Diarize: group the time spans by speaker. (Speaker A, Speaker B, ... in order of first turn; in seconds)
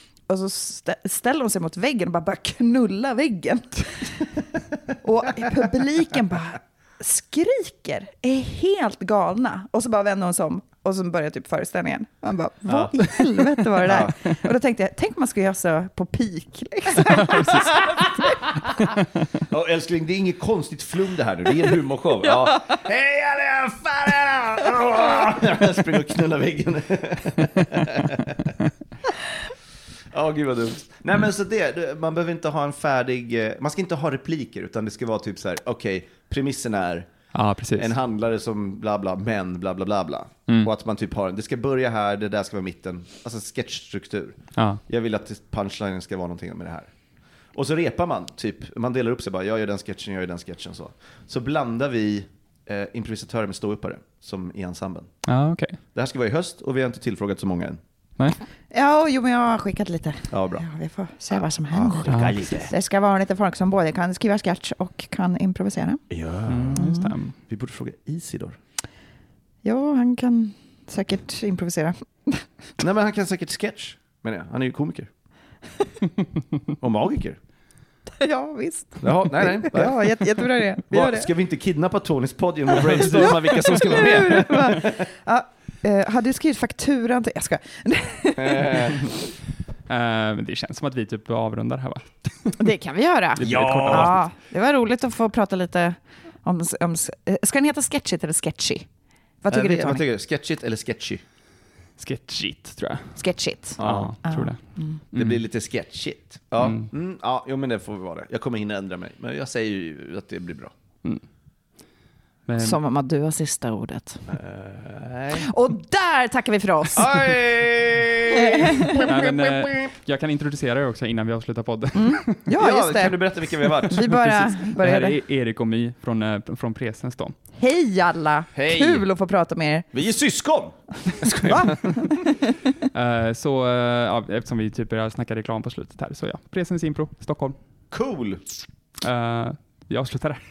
Speaker A: 0.3-4.3, 5.0-18.5, 22.3-22.6, 58.7-66.0, 66.8-67.1, 69.6-72.5, 78.2-81.3, 83.0-89.1, 92.6-98.9, 99.4-100.0, 103.2-105.0, 112.6-114.3, 115.3-117.2, 118.3-119.1, 122.0-123.2, 123.9-125.2, 127.6-129.9, 131.3-132.3
Speaker B: 12.7-13.0, 13.8-14.2, 19.4-28.5, 30.1-37.1, 37.8-44.4, 44.9-46.9, 47.5-55.1, 55.9-57.8, 60.3-60.6, 61.7-62.7, 66.1-66.9, 67.5-68.6, 72.8-75.1, 76.8-77.4, 79.0-80.2, 80.9-85.0, 88.4-89.1, 93.4-94.2, 99.5-101.2, 103.8-104.2, 105.2-110.7, 114.3-115.5, 116.9-119.9, 122.6-124.2, 128.6-129.1, 129.9-132.2, 137.9-138.4
Speaker C: 17.2-17.6, 27.5-27.9, 37.3-37.9, 44.6-44.8, 55.2-55.8, 62.1-62.7, 66.5-67.3, 82.8-83.7, 89.9-92.5, 93.3-94.2, 102.0-103.2, 103.8-104.6, 105.1-105.4, 106.6-106.9, 112.5-112.8, 119.0-122.5, 123.9-127.4, 132.9-137.6, 139.0-140.4